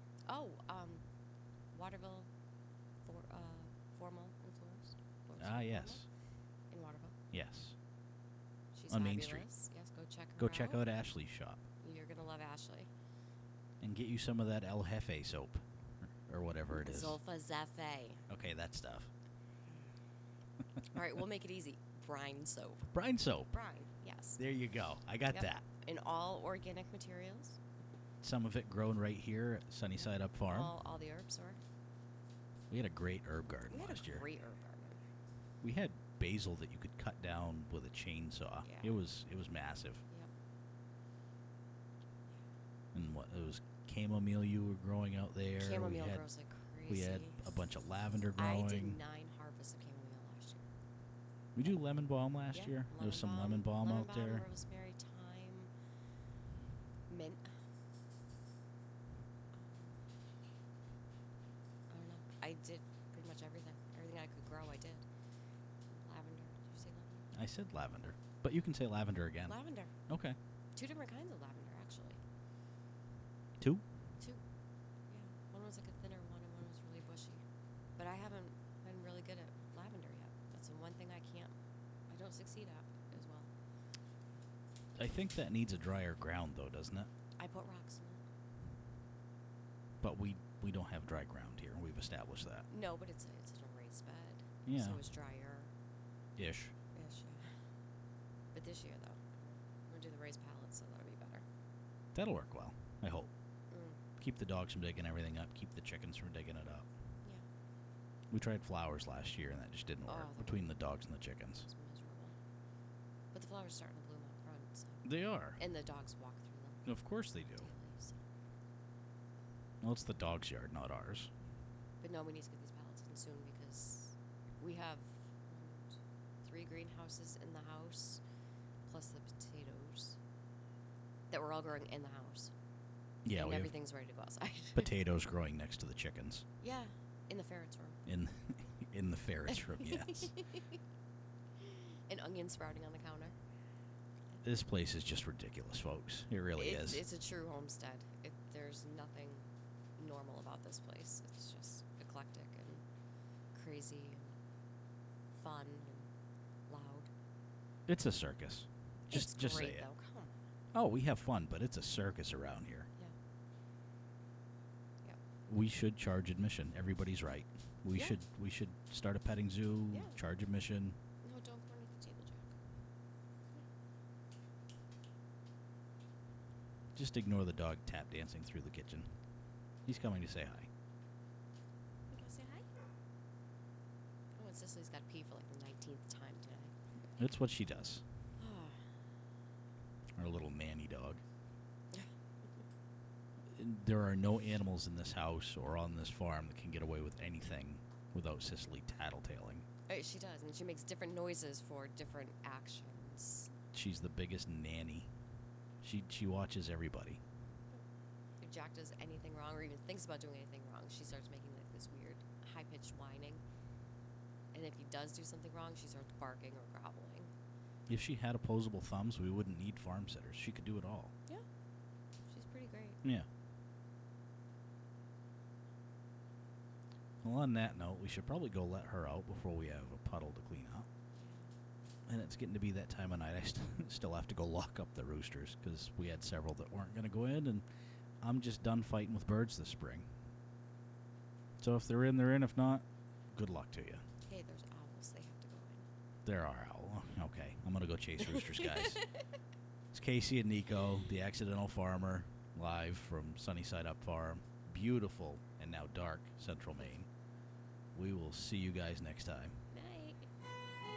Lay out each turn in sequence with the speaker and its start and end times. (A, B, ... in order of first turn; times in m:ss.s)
0:00.3-0:01.0 A
0:01.7-0:02.3 A
0:03.1-0:06.0 A
0:05.4-0:06.1 B
0:06.7-0:07.2 A
0:07.3-0:07.8 B
0:08.7-0:10.8 A
0:08.9-0:09.5 B
0:10.4-0:11.6 B
0:11.8-0:12.9 A
0:13.8-0:15.6 B
0:16.3-0:17.2 B
0:16.7-0:18.2 A
0:18.3-0:19.1 B
0:20.9-0:22.9 A
0:22.9-0:23.5 B
0:23.5-0:24.4 A
0:24.4-0:25.6 B
0:25.3-0:27.6 A
0:28.2-0:30.7 B
0:30.0-0:31.6 A
0:32.7-0:34.3 B
0:33.7-0:35.0 A
0:35.6-0:40.0 B
0:38.6-0:39.0 A
0:42.9-0:46.2 B
0:45.6-0:47.4 A
0:46.9-0:49.0 B
0:48.4-0:50.7 A
0:51.6-0:54.5 B
0:52.5-0:55.7 A
0:57.1-0:57.5 A
0:59.5-1:00.0 A
1:01.9-1:05.1 A
1:05.9-1:07.3 A
1:07.3-1:09.6 B
1:09.5-1:09.9 A
1:10.1-1:10.4 B
1:10.8-1:12.2 A
1:15.1-1:17.4 A
1:18.0-1:21.6 A
1:22.1-1:23.5 A
1:25.0-1:27.1 B
1:27.4-1:28.2 A
1:30.0-1:32.7 B
1:32.7-1:35.7 A
1:34.7-1:35.0 B
1:36.4-1:36.7 B
1:36.9-1:37.5 A
1:38.5-1:41.4 A
1:42.2-1:43.3 B
1:43.7-1:44.0 A
1:44.2-1:46.9 B
1:48.3-1:51.6 B
1:50.0-1:50.8 A
1:51.5-1:52.4 A
1:53.3-1:55.1 A
1:55.0-1:55.6 B
1:55.6-1:56.9 A
1:56.9-1:57.7 B
1:57.6-1:58.2 A
1:59.8-2:01.3 B
2:02.0-2:08.2 A
2:08.9-2:10.2 A
2:11.3-2:12.5 A
2:13.2-2:13.7 B
2:13.3-2:14.9 A
2:14.8-2:16.4 B
2:16.6-2:18.0 A
2:18.1-2:20.3 B
2:19.5-2:20.8 A
2:21.6-2:23.4 A
2:24.4-2:27.0 B
2:26.6-2:32.8 A
2:33.5-2:34.4 A
2:35.3-2:36.1 A
2:36.7-2:37.1 A
2:37.9-2:39.9 B
2:39.1-2:40.5 A
2:40.7-2:42.9 B
2:45.5-2:51.0 B
2:47.9-2:48.2 A
2:49.9-2:50.2 A
2:51.2-2:52.5 A
2:57.0-2:59.1 B
2:59.9-3:00.7 B
3:02.1-3:02.7 A
3:04.4-3:06.7 A
3:07.2-3:08.0 B
3:08.4-3:08.9 A
3:10.2-3:11.2 B
3:13.6-3:19.7 B
3:19.9-3:23.5 A
3:23.7-3:25.1 B
3:25.8-3:27.2 B
3:28.4-3:33.4 A
3:34.5-3:37.3 A
3:37.9-3:41.1 B
3:42.3-3:43.0 A
3:47.2-3:50.9 B
3:51.2-3:51.5 A
3:52.1-3:57.6 B
3:58.2-4:00.1 B
4:01.6-4:04.0 B
4:04.2-4:05.9 A
4:06.3-4:09.0 B
4:08.2-4:09.2 A
4:09.9-4:17.1 B
4:18.0-4:19.5 B
4:19.7-4:20.3 A